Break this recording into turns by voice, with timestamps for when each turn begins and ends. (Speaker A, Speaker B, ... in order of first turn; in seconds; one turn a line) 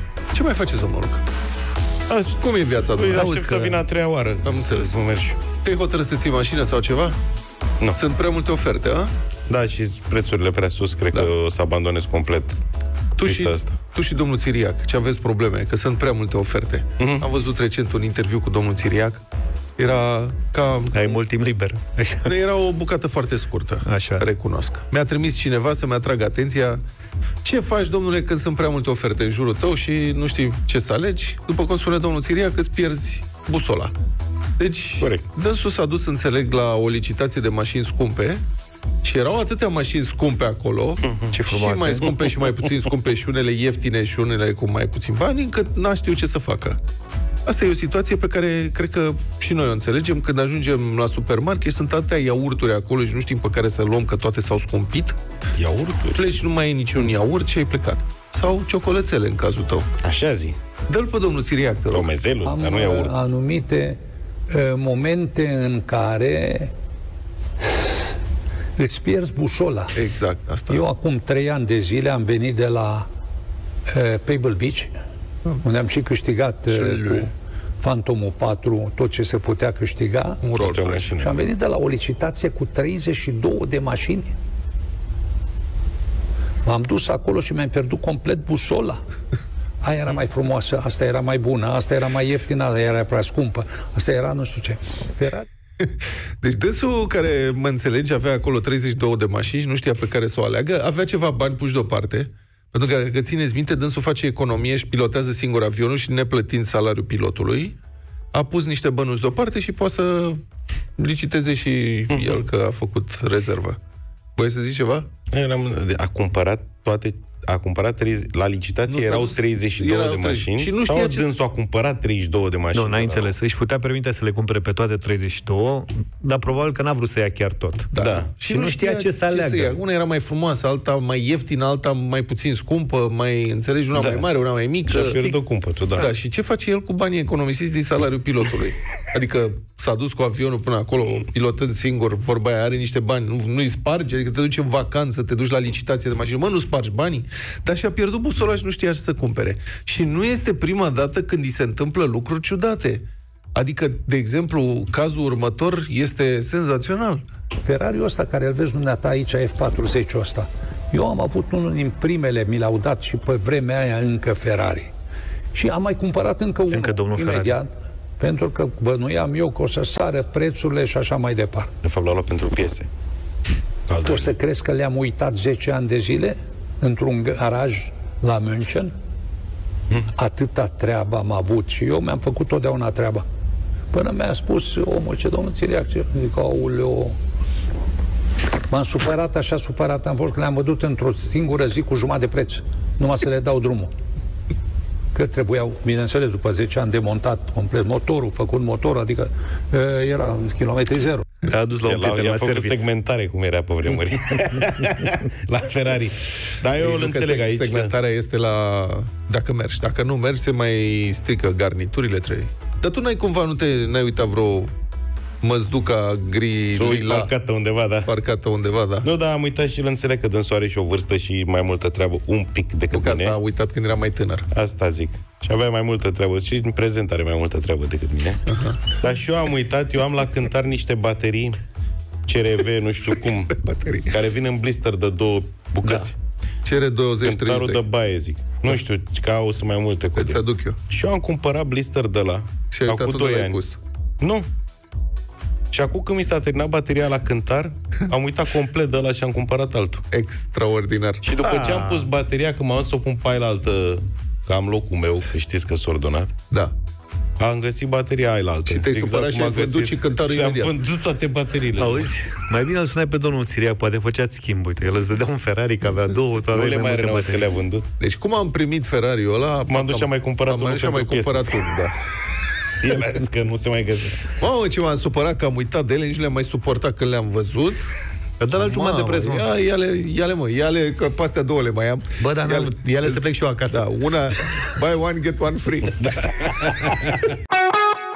Speaker A: 0.3-1.2
Speaker B: 2.1-5.4
Speaker A: 2.4-3.5
Speaker C: 3.2-3.9
Speaker A: 4.4-5.0
Speaker A: 5.6-7.2
Speaker A: 7.9-9.1
Speaker B: 9.5-12.6
Speaker A: 13.2-19.2
Speaker B: 13.2-13.8
Speaker B: 17.0-17.2
Speaker A: 19.8-21.2
Speaker C: 20.9-22.3
Speaker A: 22.2-26.8
Speaker C: 23.9-24.3
Speaker A: 27.4-33.9
Speaker A: 34.6-38.4
Speaker A: 39.0-46.8
Speaker B: 41.1-41.3
Speaker C: 41.3-42.0
Speaker A: 47.5-55.2
Speaker B: 55.6-56.2
Speaker A: 56.1-59.9
Speaker B: 60.0-60.6
Speaker A: 60.9-62.1
Speaker B: 61.9-63.2
Speaker D: 62.4-64.0
Speaker D: 64.5-66.7
Speaker D: 68.8-70.0
Speaker A: 69.9-70.9
Speaker D: 70.7-73.1
Speaker D: 73.9-74.9
Speaker D: 75.6-80.4
Speaker A: 76.7-77.3
Speaker A: 80.4-81.1
Speaker B: 80.6-81.4
Speaker D: 81.2-84.3
Speaker D: 86.7-89.0
Speaker D: 89.8-95.5
Speaker A: 96.4-107.8
Speaker A: 108.3-110.4
Speaker A: 111.0-113.8
Speaker A: 114.4-115.1
Speaker B: 115.3-123.3
Speaker A: 118.9-121.3
Speaker C: 122.7-129.8
Speaker A: 127.9-135.2
Speaker B: 128.0-128.3
Speaker B: 134.9-136.1
Speaker A: 135.9-157.2
Speaker D: 157.6-164.9
Speaker D: 165.5-171.7
Speaker C: 166.7-167.6
Speaker B: 171.8-172.9
Speaker B: 173.9-174.3
Speaker D: 174.0-178.9
Speaker D: 180.1-183.2
Speaker D: 183.9-187.2
Speaker D: 188.7-193.9
Speaker D: 195.1-201.3
Speaker C: 201.4-202.8
Speaker B: 201.8-207.9
Speaker A: 206.8-214.7
Speaker A: 215.4-217.3
Speaker B: 216.8-218.1
Speaker A: 218.1-219.1
Speaker B: 219.0-223.4
Speaker A: 222.9-224.5
Speaker B: 224.5-228.4
Speaker A: 228.5-228.8
Speaker B: 228.9-231.6
Speaker B: 232.3-236.2
Speaker A: 233.6-234.2
Speaker A: 236.7-237.8
Speaker B: 237.2-243.6
Speaker A: 240.2-240.8
Speaker A: 242.7-243.8
Speaker B: 244.2-244.5
Speaker B: 245.7-250.1
Speaker A: 250.1-251.2
Speaker B: 251.2-256.3
Speaker C: 251.4-252.1
Speaker B: 257.4-262.1
Speaker A: 258.7-260.8
Speaker C: 261.8-267.6
Speaker B: 266.5-267.9
Speaker A: 268.0-272.0
Speaker B: 269.7-271.7
Speaker B: 272.8-274.4
Speaker A: 274.4-277.9
Speaker C: 278.4-279.5
Speaker A: 278.6-286.6
Speaker C: 282.2-283.9
Speaker B: 286.3-287.3